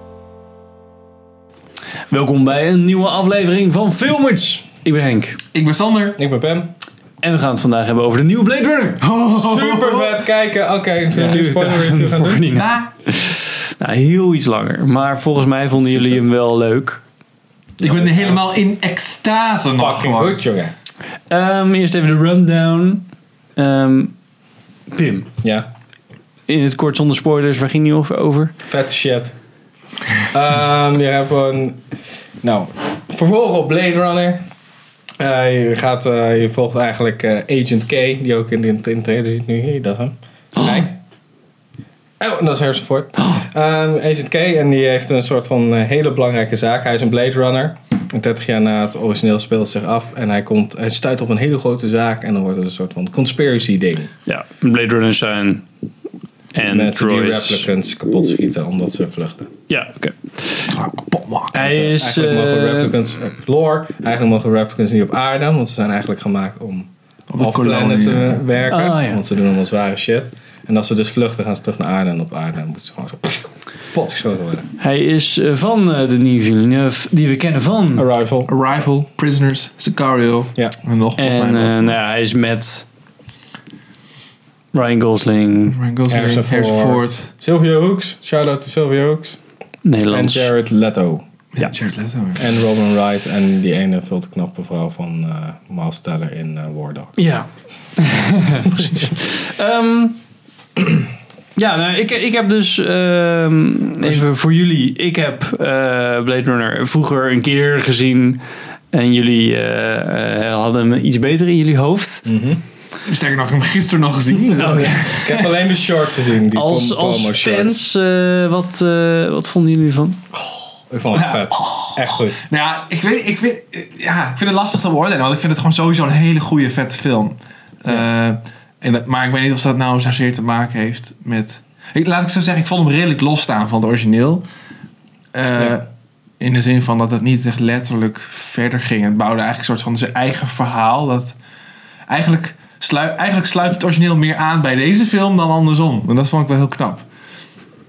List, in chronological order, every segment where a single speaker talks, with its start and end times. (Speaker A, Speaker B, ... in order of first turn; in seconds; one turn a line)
Speaker A: 2.1-5.4
Speaker B: 5.5-6.2
Speaker C: 6.2-6.7
Speaker A: 7.2-9.0
Speaker B: 9.0-10.1
Speaker C: 9.3-12.4
Speaker A: 11.1-17.0
Speaker B: 12.5-12.9
Speaker C: 15.8-16.3
Speaker B: 17.8-20.4
Speaker C: 17.8-18.4
Speaker C: 19.7-20.7
Speaker A: 21.3-24.1
Speaker A: 24.9-25.3
Speaker A: 26.5-28.5
Speaker C: 28.7-29.4
Speaker C: 30.3-31.8
Speaker C: 32.4-34.4
Speaker C: 35.2-41.0
Speaker A: 40.6-40.8
Speaker C: 42.2-54.1
Speaker A: 54.3-55.6
Speaker A: 56.5-57.7
Speaker C: 56.7-59.5
Speaker A: 59.7-60.7
Speaker B: 60.7-61.6
Speaker A: 61.5-63.0
Speaker C: 61.5-74.7
Speaker B: 67.3-68.4
Speaker A: 68.7-69.2
Speaker A: 74.8-78.1
Speaker C: 78.0-78.5
Speaker B: 78.5-82.0
Speaker A: 81.2-82.9
Speaker A: 84.7-85.8
Speaker B: 85.7-87.3
Speaker C: 86.1-89.4
Speaker A: 89.8-90.5
Speaker C: 90.1-91.2
Speaker B: 91.6-92.5
Speaker C: 92.4-97.2
Speaker A: 97.2-100.2
Speaker A: 101.6-112.3
Speaker C: 112.2-112.6
Speaker B: 113.0-115.6
Speaker A: 114.6-114.9
Speaker C: 114.6-117.8
Speaker A: 116.5-120.2
Speaker C: 120.9-122.4
Speaker B: 121.1-134.5
Speaker B: 135.3-135.9
Speaker B: 136.4-141.4
Speaker B: 142.1-147.1